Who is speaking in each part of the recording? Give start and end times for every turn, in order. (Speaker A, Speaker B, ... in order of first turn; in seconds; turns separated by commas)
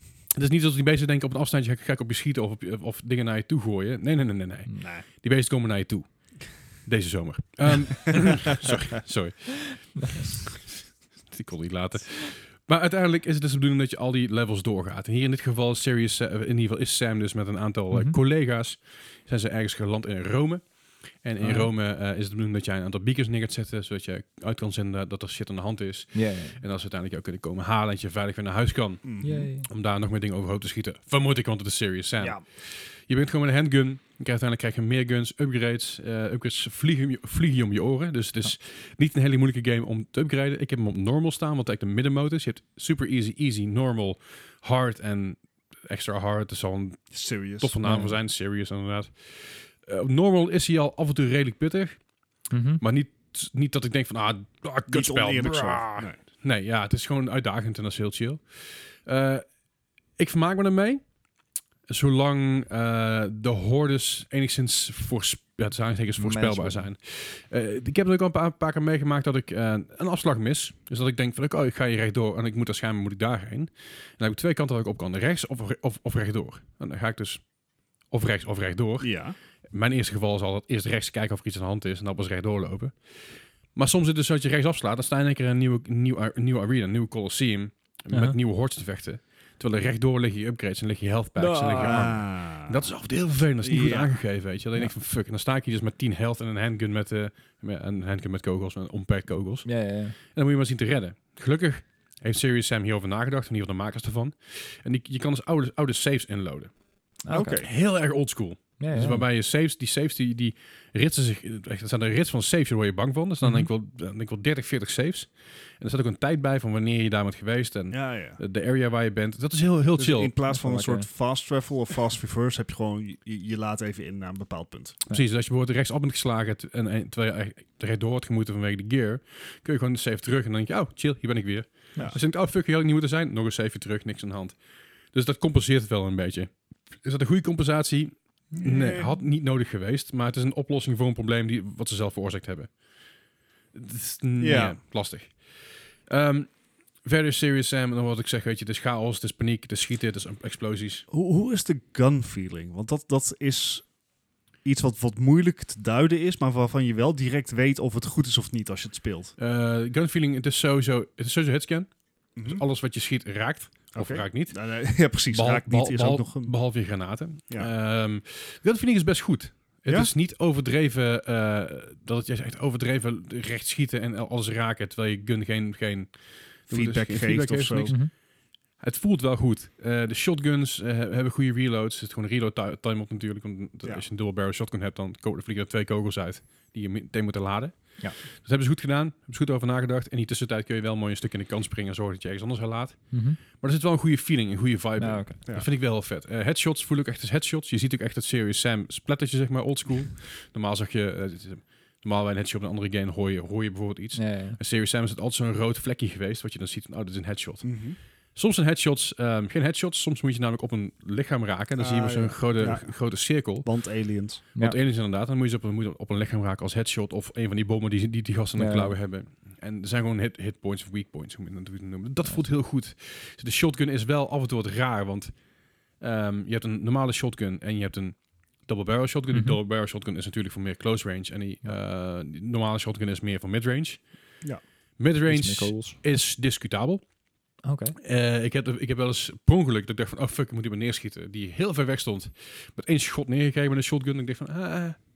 Speaker A: 0.3-20.6, Speaker B: 4.8-5.0, Speaker C: 17.9-18.2, Speaker A: 21.2-52.0, Speaker C: 21.4-21.7, Speaker C: 26.1-26.6, Speaker B: 29.0-29.5, Speaker C: 29.2-29.7, Speaker B: 47.1-47.7, Speaker C: 47.8-48.2, Speaker C: 52.5-52.8, Speaker A: 52.8-59.5, Speaker B: 54.9-56.2, Speaker A: 60.2-61.0, Speaker A: 61.9-77.4, Speaker C: 66.2-66.9, Speaker A: 78.1-79.2, Speaker B: 79.0-79.4, Speaker A: 79.7-83.0, Speaker A: 83.7-99.7, Speaker C: 88.1-88.4, Speaker C: 91.4-92.2, Speaker B: 91.8-92.8, Speaker B: 93.6-94.2, Speaker C: 99.7-100.2, Speaker A: 100.3-106.7, Speaker C: 107.3-107.6, Speaker B: 107.3-107.7, Speaker A: 107.6-120.3, Speaker C: 108.8-109.3, Speaker C: 113.4-113.7, Speaker B: 117.9-118.4, Speaker B: 120.0-125.0, Speaker C: 120.5-121.1, Speaker A: 125.1-134.6, Speaker A: 135.1-142.7, Speaker B: 138.6-139.1, Speaker A: 143.7-151.1, Speaker B: 144.4-144.8, Speaker B: 151.1-153.9, Speaker B: 154.7-159.3, Speaker A: 159.4-164.6, Speaker B: 162.4-162.6, Speaker B: 163.9-166.5, Speaker A: 165.3-178.1, Speaker B: 176.7-177.9, Speaker A: 178.8-207.8, Speaker C: 193.1-193.4, Speaker C: 195.0-195.4, Speaker C: 204.2-204.6, Speaker B: 207.6-208.0, Speaker A: 208.3-213.7, Speaker B: 211.8-213.0, Speaker B: 213.6-214.4, Speaker A: 214.6-225.3, Speaker C: 218.6-219.0, Speaker A: 226.0-234.1, Speaker C: 229.3-229.6, Speaker A: 235.0-237.0, Speaker C: 235.3-236.0, Speaker C: 237.6-238.0, Speaker A: 238.0-245.0